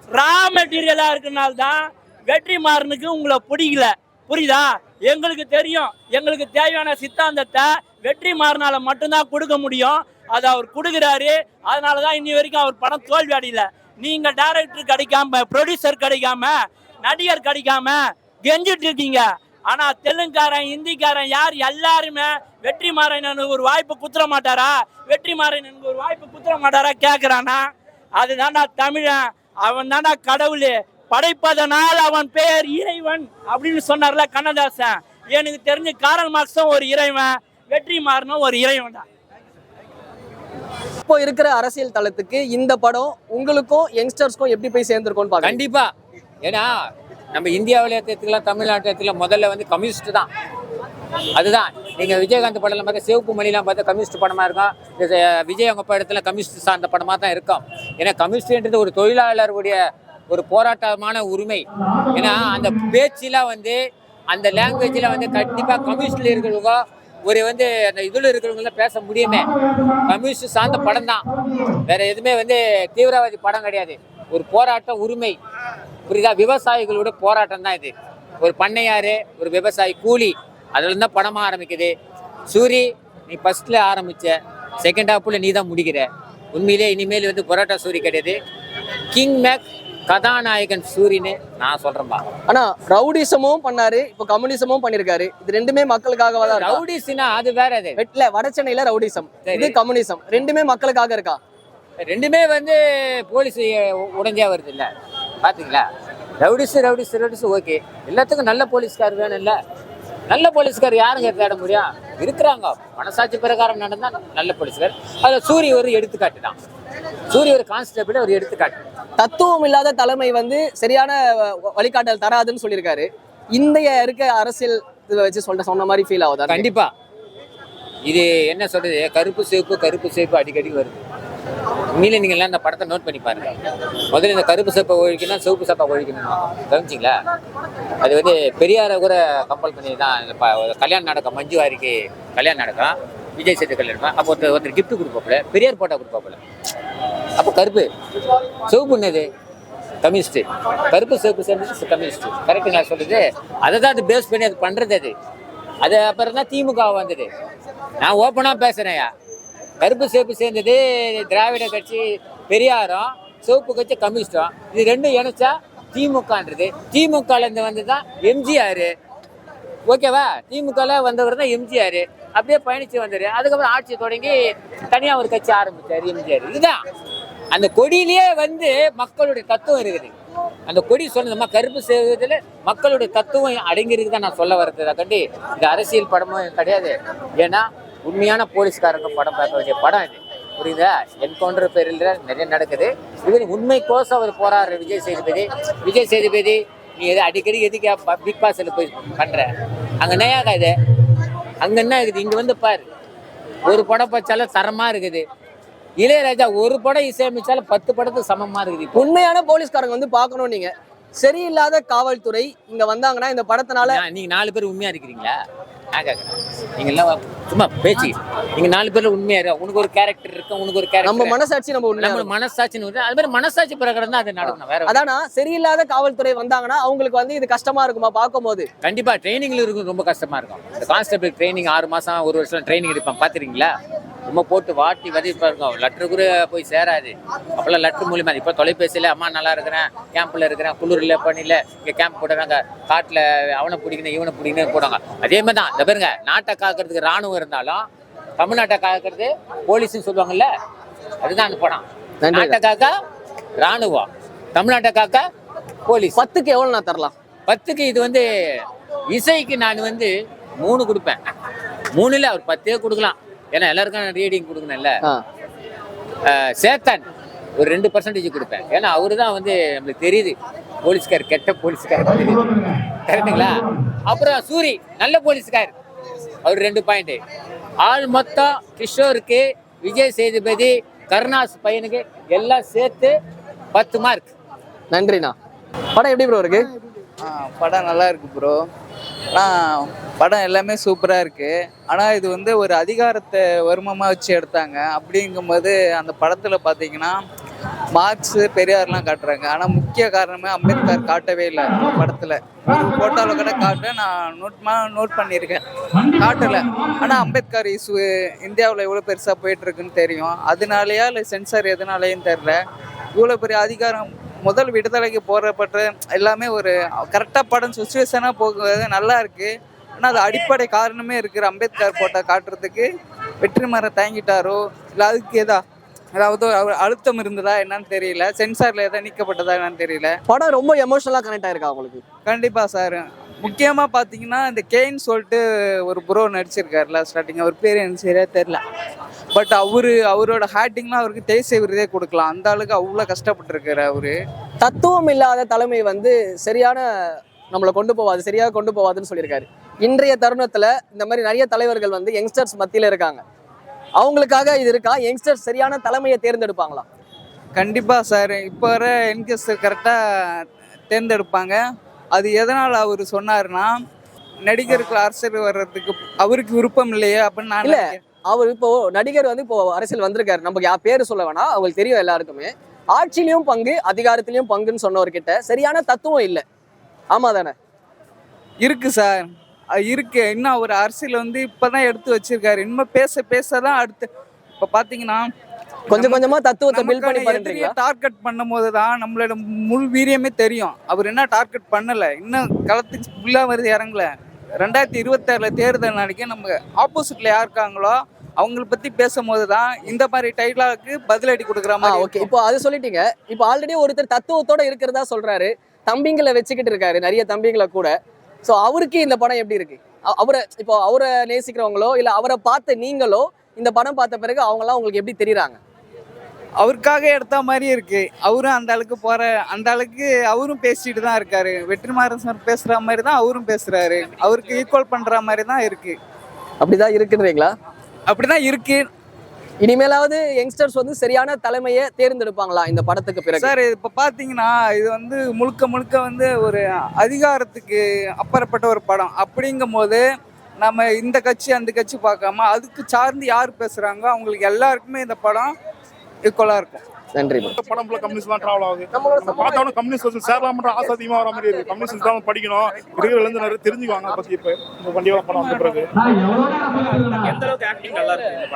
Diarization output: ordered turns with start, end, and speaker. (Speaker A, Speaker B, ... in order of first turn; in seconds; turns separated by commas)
Speaker A: 0.1-27.6, Speaker A: 28.2-39.0, Speaker B: 41.1-45.6, Speaker C: 45.4-45.9, Speaker C: 46.4-46.7, Speaker C: 47.3-50.3, Speaker C: 51.4-75.4, Speaker C: 76.1-81.9, Speaker C: 82.5-88.4, Speaker C: 89.1-92.2, Speaker B: 92.5-96.8, Speaker C: 96.4-98.0, Speaker B: 98.0-101.4, Speaker C: 99.5-99.8, Speaker C: 102.0-104.9, Speaker C: 105.4-105.8, Speaker C: 106.4-109.6, Speaker C: 110.3-116.6, Speaker C: 117.3-118.8, Speaker B: 119.2-126.7, Speaker C: 126.5-126.9, Speaker C: 128.1-131.0, Speaker C: 131.9-133.5, Speaker C: 134.1-137.2, Speaker C: 138.0-146.4, Speaker C: 147.4-147.9, Speaker C: 148.7-149.3, Speaker C: 150.0-155.1, Speaker C: 155.8-157.3, Speaker C: 158.0-159.1, Speaker C: 159.8-168.9, Speaker C: 169.9-174.4, Speaker C: 174.9-176.8, Speaker C: 177.5-180.1, Speaker C: 180.7-199.5, Speaker C: 200.0-200.7, Speaker C: 201.6-202.8, Speaker C: 203.7-205.2, Speaker C: 206.0-209.1, Speaker B: 208.9-214.0, Speaker C: 213.8-215.3, Speaker C: 215.9-221.4, Speaker B: 221.0-222.3, Speaker C: 221.9-225.0, Speaker B: 224.4-228.7, Speaker C: 228.8-233.7, Speaker C: 234.3-247.8, Speaker C: 248.4-250.5, Speaker C: 251.2-252.9, Speaker B: 252.2-252.6, Speaker C: 253.6-255.2, Speaker C: 255.9-256.2, Speaker B: 256.1-257.1, Speaker C: 257.5-258.2, Speaker C: 259.1-261.2, Speaker C: 261.9-265.0, Speaker C: 266.2-267.0, Speaker C: 267.6-275.7, Speaker C: 276.4-277.2, Speaker C: 277.8-283.1, Speaker C: 283.7-284.3, Speaker B: 284.9-285.3, Speaker B: 285.9-286.7, Speaker D: 287.2-288.6, Speaker D: 289.3-297.2, Speaker D: 297.9-312.6, Speaker D: 313.1-322.9, Speaker D: 323.4-325.6, Speaker D: 326.2-330.1, Speaker B: 330.3-332.0, Speaker D: 332.3-338.6, Speaker D: 339.3-344.1, Speaker B: 344.6-353.2, Speaker B: 354.0-356.9, Speaker D: 357.6-360.0, Speaker D: 360.9-361.6, Speaker D: 362.1-363.8, Speaker D: 364.5-368.0, Speaker B: 367.6-376.4, Speaker B: 377.1-377.5, Speaker D: 378.6-379.3, Speaker D: 379.8-384.1, Speaker D: 384.6-385.3, Speaker D: 385.9-402.3, Speaker B: 385.9-387.8, Speaker B: 401.8-407.9, Speaker B: 408.4-415.6, Speaker D: 416.6-426.0, Speaker B: 426.6-427.5, Speaker D: 428.1-428.8, Speaker B: 429.6-433.5, Speaker D: 433.4-440.0, Speaker D: 440.6-445.5, Speaker D: 446.3-446.8, Speaker B: 447.1-447.6, Speaker E: 447.5-455.9, Speaker B: 448.9-449.7, Speaker B: 452.9-453.3, Speaker B: 456.0-458.2